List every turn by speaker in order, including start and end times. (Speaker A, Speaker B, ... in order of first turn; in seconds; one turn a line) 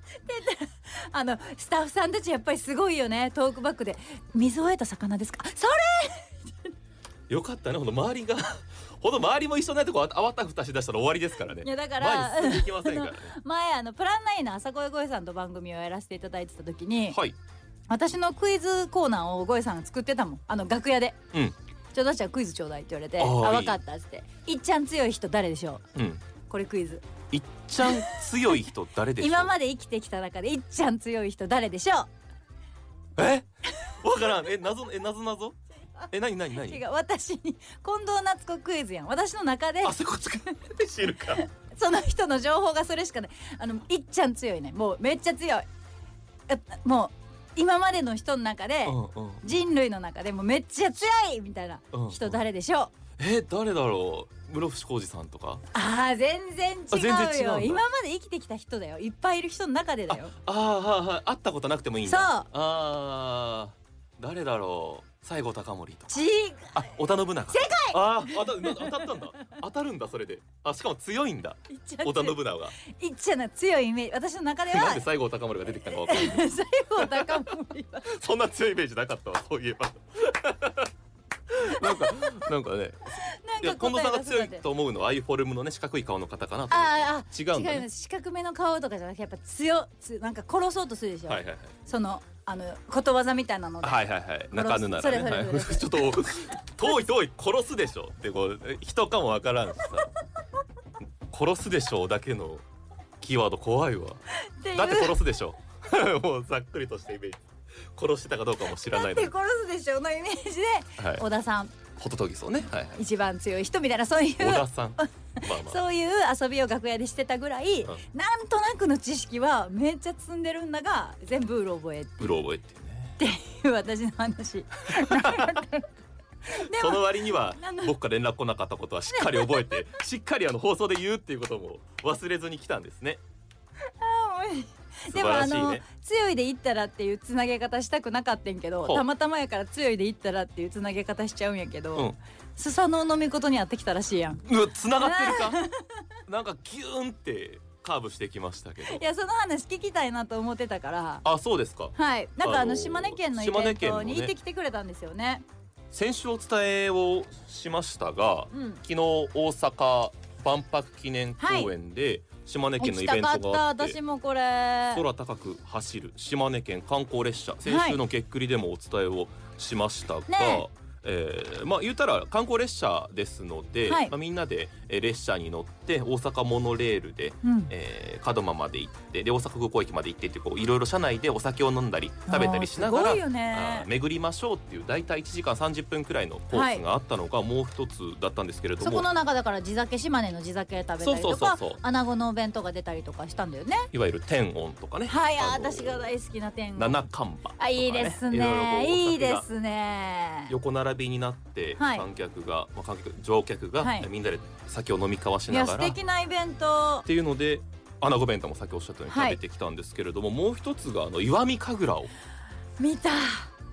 Speaker A: 0.2-6.7
Speaker B: 7.3-13.3
Speaker A: 11.6-17.2
Speaker B: 17.1-17.4
Speaker A: 17.9-21.2
Speaker A: 21.9-25.9
Speaker B: 23.2-23.8
Speaker B: 25.9-26.2
Speaker A: 26.5-27.1
Speaker B: 27.3-29.5
Speaker A: 27.8-28.2
Speaker A: 29.2-32.1
Speaker B: 33.2-33.5
Speaker B: 34.0-35.6
Speaker B: 36.1-36.8
Speaker A: 36.6-40.0
Speaker B: 39.8-41.4
Speaker A: 41.4-45.7
Speaker A: 46.5-52.9
Speaker B: 48.9-49.6
Speaker B: 51.9-52.4
Speaker B: 53.2-55.6
Speaker A: 55.7-60.4
Speaker B: 56.9-57.8
Speaker B: 60.1-72.8
Speaker A: 62.1-62.5
Speaker A: 66.1-66.9
Speaker A: 67.5-69.1
Speaker A: 71.7-75.1
Speaker B: 74.7-77.5
Speaker A: 75.9-78.2
Speaker B: 78.1-80.9
Speaker B: 81.5-87.9
Speaker A: 81.7-82.4
Speaker A: 83.2-84.6
Speaker A: 86.7-96.2
Speaker B: 91.3-91.7
Speaker B: 93.8-100.1
Speaker B: 101.3-102.6
Speaker B: 103.2-104.2
Speaker A: 104.3-105.2
Speaker B: 104.7-107.4
Speaker B: 107.9-109.3
Speaker A: 108.8-111.8
Speaker B: 111.0-111.2
Speaker B: 112.0-113.0
Speaker A: 113.0-122.3
Speaker B: 114.4-115.8
Speaker B: 122.2-123.2
Speaker A: 123.2-125.9
Speaker B: 124.9-125.6
Speaker A: 126.5-128.0
Speaker B: 126.5-133.2
Speaker A: 129.1-129.8
Speaker A: 134.0-144.5
Speaker B: 135.1-135.8
Speaker B: 144.4-145.6
Speaker A: 145.0-145.8
Speaker B: 146.3-149.0
Speaker A: 148.8-151.2
Speaker B: 151.2-154.3
Speaker A: 151.9-155.4
Speaker B: 155.9-164.0
Speaker A: 158.5-158.8
Speaker A: 161.4-161.7
Speaker A: 162.8-165.0
Speaker B: 164.9-189.1
Speaker A: 167.7-168.0
Speaker A: 170.3-170.7
Speaker A: 173.9-174.1
Speaker A: 177.4-177.7
Speaker A: 182.3-183.9
Speaker A: 186.5-186.8
Speaker A: 188.8-193.9
Speaker B: 191.0-191.8
Speaker B: 193.9-196.1
Speaker A: 195.1-197.0
Speaker B: 196.8-199.5
Speaker A: 197.6-200.5
Speaker B: 200.5-206.0
Speaker A: 201.8-202.1
Speaker A: 203.8-204.1
Speaker A: 205.5-207.1
Speaker B: 207.1-212.1
Speaker A: 209.1-209.4
Speaker A: 212.8-213.5